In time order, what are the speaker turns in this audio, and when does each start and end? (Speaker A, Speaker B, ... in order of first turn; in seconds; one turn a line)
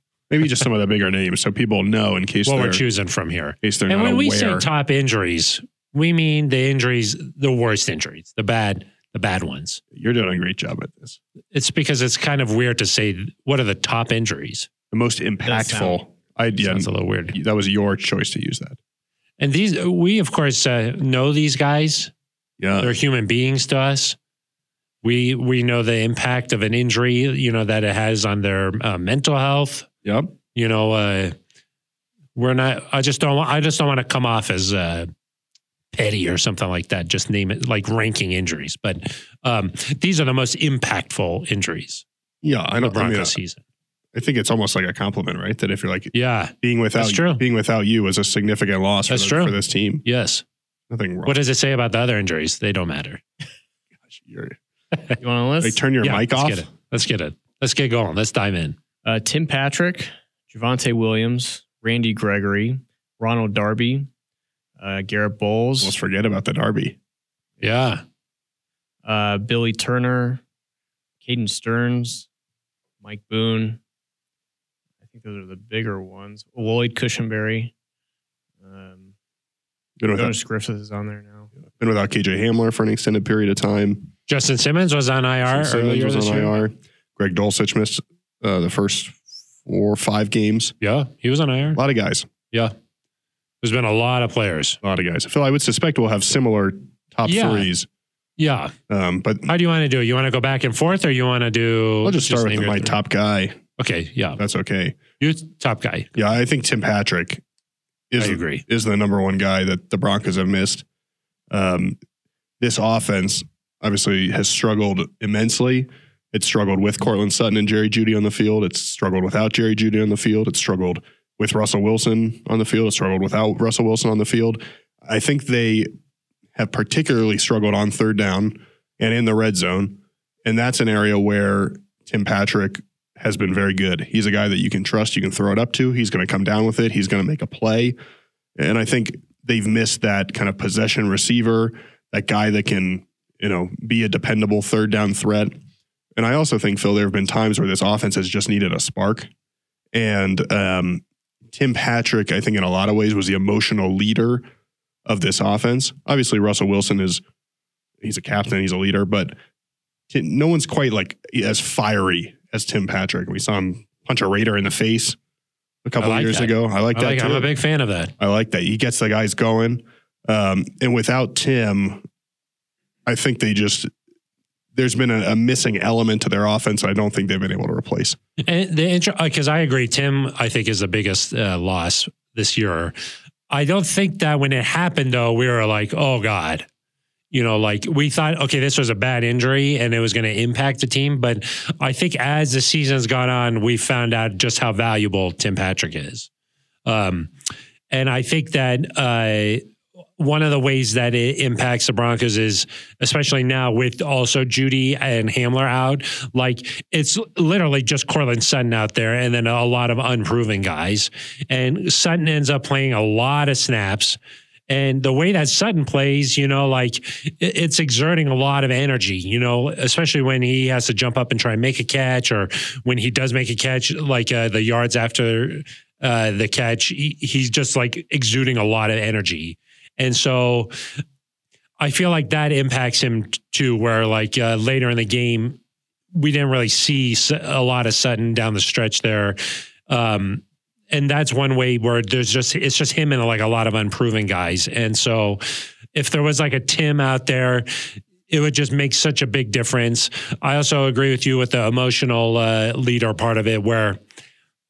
Speaker A: 0.3-2.8
Speaker B: 2.5-9.8
Speaker A: 3.6-4.7
Speaker A: 9.9-11.2
Speaker B: 11.5-14.7
Speaker A: 14.9-18.8
Speaker C: 15.4-16.0
Speaker B: 16.6-17.4
Speaker B: 19.4-22.1
Speaker A: 22.6-23.0
Speaker B: 22.8-24.2
Speaker B: 25.0-29.9
Speaker A: 30.1-30.3
Speaker B: 30.5-31.4
Speaker B: 32.4-35.1
Speaker B: 35.9-42.0
Speaker A: 42.4-43.4
Speaker B: 42.8-43.6
Speaker A: 44.1-50.0
Speaker B: 46.1-47.4
Speaker B: 49.1-50.4
Speaker A: 50.9-51.4
Speaker B: 51.2-53.2
Speaker A: 54.1-54.6
Speaker C: 55.2-55.8
Speaker A: 55.6-56.7
Speaker B: 56.0-58.8
Speaker C: 59.0-64.1
Speaker C: 64.8-66.0
Speaker A: 65.8-67.0
Speaker B: 67.6-68.0
Speaker C: 69.0-70.4
Speaker C: 71.2-72.3
Speaker C: 73.0-73.8
Speaker C: 75.0-77.7
Speaker C: 78.6-79.1
Speaker A: 80.0-80.4
Speaker C: 80.1-81.5
Speaker A: 81.8-84.1
Speaker B: 84.3-86.6
Speaker A: 85.5-90.8
Speaker B: 90.8-91.8
Speaker A: 91.8-92.3
Speaker B: 93.6-94.8
Speaker A: 94.8-97.9
Speaker B: 97.2-97.7
Speaker B: 98.4-98.7
Speaker A: 98.9-99.5
Speaker B: 99.5-103.0
Speaker A: 102.0-103.6
Speaker B: 103.8-104.4
Speaker A: 104.4-105.0
Speaker B: 105.2-106.2
Speaker A: 106.2-107.4
Speaker A: 108.1-110.8
Speaker B: 108.2-108.6
Speaker A: 111.5-112.0
Speaker A: 112.6-125.9
Speaker A: 126.5-138.0
Speaker A: 138.6-145.5
Speaker A: 146.2-149.3
Speaker A: 149.9-154.4
Speaker A: 155.1-157.2
Speaker A: 158.0-159.3
Speaker A: 160.1-165.2
Speaker A: 165.8-167.5
Speaker B: 166.0-168.1
Speaker A: 168.2-172.1
Speaker A: 173.1-173.9
Speaker A: 174.8-178.2
Speaker B: 178.4-182.9
Speaker B: 183.5-186.7
Speaker B: 187.3-196.3
Speaker B: 196.9-197.3
Speaker B: 197.9-199.7
Speaker B: 200.2-214.2
Speaker B: 214.7-230.7
Speaker B: 231.8-235.6
Speaker B: 236.1-245.4
Speaker B: 245.9-247.7
Speaker B: 248.3-254.0